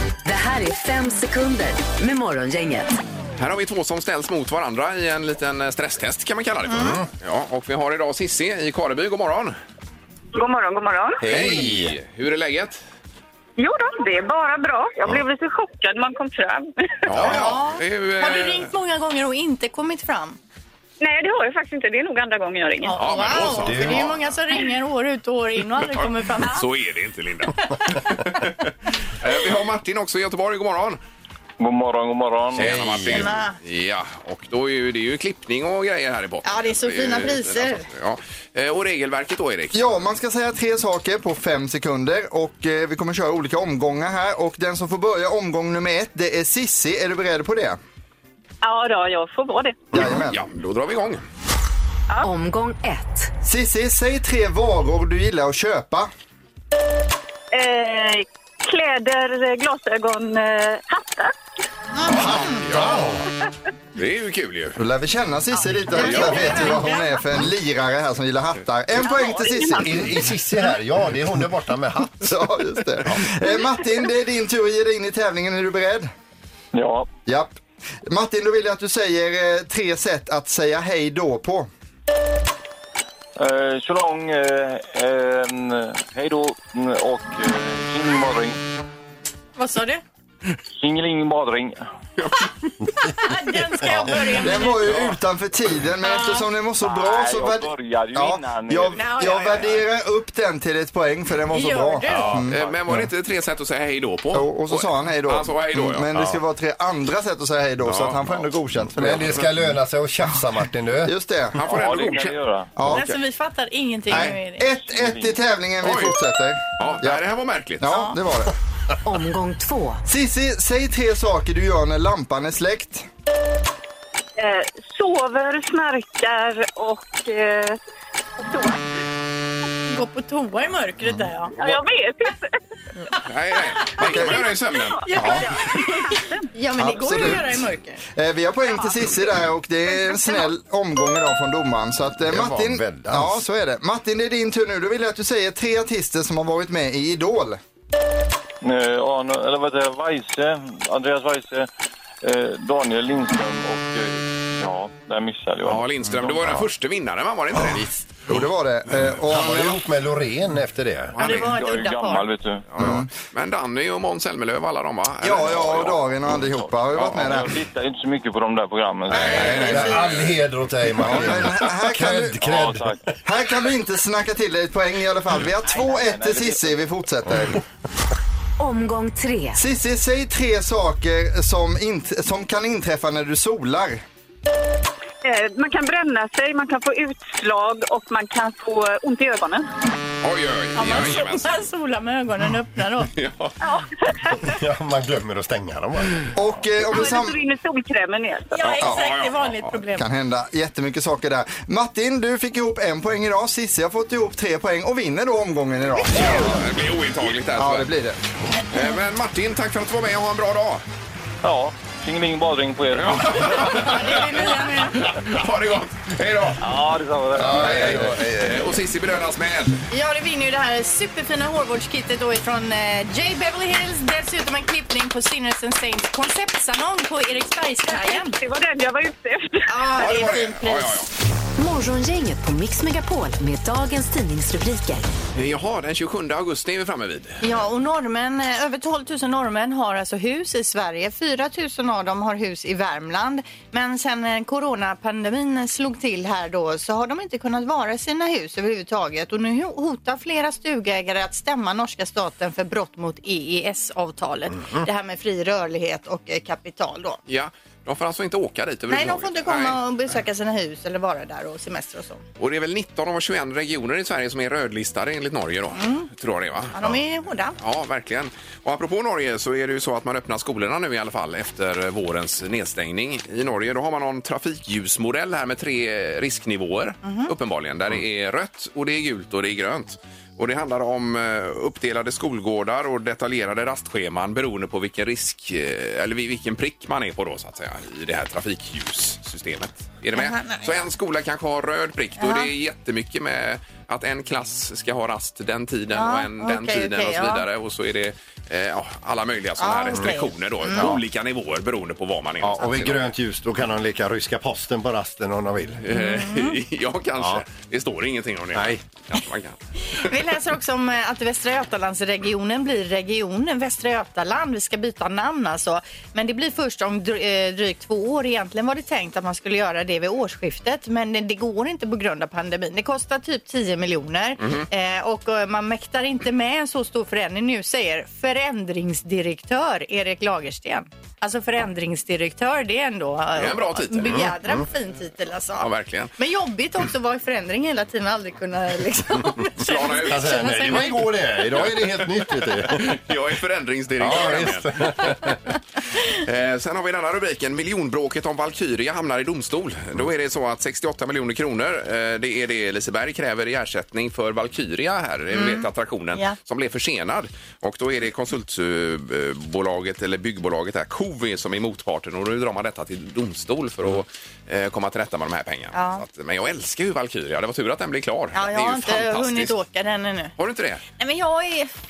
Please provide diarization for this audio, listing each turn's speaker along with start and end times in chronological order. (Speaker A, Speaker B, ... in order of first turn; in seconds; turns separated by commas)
Speaker A: 0.2-2.9, Speaker B: 3.4-9.6, Speaker C: 6.7-7.1, Speaker D: 10.3-11.3, Speaker C: 11.2-11.9, Speaker B: 11.2-12.8, Speaker D: 13.6-17.1, Speaker B: 17.1-18.7, Speaker E: 17.2-20.4, Speaker D: 21.0-23.0, Speaker E: 22.8-26.6, Speaker B: 23.0-24.3, Speaker C: 23.6-24.1, Speaker B: 25.9-31.0, Speaker F: 31.6-32.8, Speaker C: 32.5-33.3, Speaker B: 32.5-39.8, Speaker E: 33.1-33.5, Speaker E: 36.4-37.8, Speaker G: 39.7-47.8, Speaker D: 48.6-50.0, Speaker G: 49.9-50.4, Speaker B: 50.1-51.2, Speaker A: 52.2-53.3, Speaker G: 53.4-56.1, Speaker D: 57.5-61.3, Speaker E: 62.0-62.6, Speaker B: 62.1-63.2, Speaker C: 62.7-63.2, Speaker B: 64.0-64.8, Speaker G: 64.8-70.0, Speaker E: 65.9-67.1, Speaker D: 66.1-67.1, Speaker D: 69.0-69.8, Speaker C: 69.8-72.4, Speaker G: 72.2-76.1, Speaker F: 76.7-77.1, Speaker G: 77.2-81.7, Speaker F: 83.4-88.6, Speaker E: 89.6-90.0, Speaker F: 90.8-91.8, Speaker E: 93.0-94.9, Speaker G: 94.4-102.7, Speaker E: 96.0-96.4, Speaker F: 96.8-99.1, Speaker E: 98.9-99.7, Speaker E: 101.5-102.3, Speaker C: 102.1-103.1, Speaker B: 102.5-106.1, Speaker G: 104.3-109.4, Speaker B: 107.8-108.5, Speaker C: 109.0-111.1, Speaker G: 111.0-112.0, Speaker B: 111.5-112.4, Speaker F: 111.6-112.7, Speaker G: 112.7-113.1, Speaker E: 112.9-114.7, Speaker G: 114.1-117.2, Speaker F: 114.8-115.4, Speaker B: 115.8-116.1, Speaker B: 116.8-117.8, Speaker G: 117.8-118.5, Speaker E: 117.9-118.1, Speaker A: 119.0-120.0, Speaker G: 120.0-123.1, Speaker D: 124.4-127.8, Speaker D: 128.4-128.8, Speaker E: 129.9-131.6, Speaker D: 131.6-132.5, Speaker B: 133.2-135.2, Speaker G: 134.0-134.4, Speaker D: 134.9-136.5, Speaker E: 135.1-136.0, Speaker G: 135.2-135.4, Speaker E: 136.5-138.0, Speaker G: 136.8-137.6, Speaker G: 138.2-147.6, Speaker E: 140.1-140.4, Speaker C: 142.2-143.4, Speaker F: 148.6-151.7, Speaker F: 152.2-155.9, Speaker B: 155.6-157.9, Speaker C: 157.5-158.1, Speaker G: 158.2-159.8, Speaker C: 159.2-161.2, Speaker B: 161.1-161.6, Speaker E: 161.2-162.3, Speaker F: 161.3-162.7, Speaker B: 162.7-166.4, Speaker G: 162.8-163.1, Speaker G: 165.2-167.5, Speaker B: 166.9-167.4, Speaker F: 167.1-169.8, Speaker B: 169.1-170.3, Speaker G: 169.1-170.1, Speaker C: 169.3-173.0, Speaker G: 171.0-172.5, Speaker F: 172.3-173.0, Speaker G: 173.2-177.6, Speaker F: 175.6-176.9, Speaker A: 178.6-179.6, Speaker G: 179.5-184.0, Speaker D: 185.2-189.7, Speaker B: 190.2-191.5, Speaker E: 190.8-193.1, Speaker B: 193.1-193.6, Speaker D: 193.6-194.5, Speaker C: 194.4-196.2, Speaker G: 196.3-197.4, Speaker D: 196.8-198.9, Speaker E: 198.5-200.0, Speaker B: 198.7-199.8, Speaker G: 199.9-206.6, Speaker B: 206.1-207.9, Speaker G: 207.5-208.2, Speaker B: 208.7-210.8, Speaker F: 211.4-213.8, Speaker B: 212.9-216.6, Speaker E: 213.6-215.0, Speaker F: 216.6-218.1, Speaker C: 217.3-218.7, Speaker B: 217.5-219.8, Speaker E: 219.9-228.3, Speaker D: 227.8-229.7, Speaker E: 229.7-231.0, Speaker B: 230.0-231.1, Speaker A: 231.6-235.1, Speaker B: 235.3-237.4, Speaker E: 237.4-257.2, Speaker B: 257.3-259.8, Speaker E: 258.9-262.2, Speaker B: 262.4-267.0, Speaker E: 265.8-266.1, Speaker E: 266.7-267.6, Speaker B: 267.6-303.1, Speaker E: 277.0-277.3, Speaker E: 290.1-290.9, Speaker E: 292.2-292.5, Speaker E: 295.9-297.4, Speaker E: 299.6-300.9, Speaker C: 302.4-305.8, Speaker B: 305.8-310.1, Speaker E: 305.9-306.6, Speaker C: 308.5-308.8, Speaker E: 309.9-341.1, Speaker B: 333.4-334.3, Speaker B: 335.6-336.1, Speaker B: 339.6-340.9, Speaker C: 339.9-343.0, Speaker B: 341.5-345.3, Speaker C: 344.0-345.4, Speaker B: 346.1-369.5, Speaker E: 355.3-356.4, Speaker E: 365.7-366.0, Speaker E: 368.3-370.3, Speaker B: 370.4-370.8, Speaker E: 371.0-371.7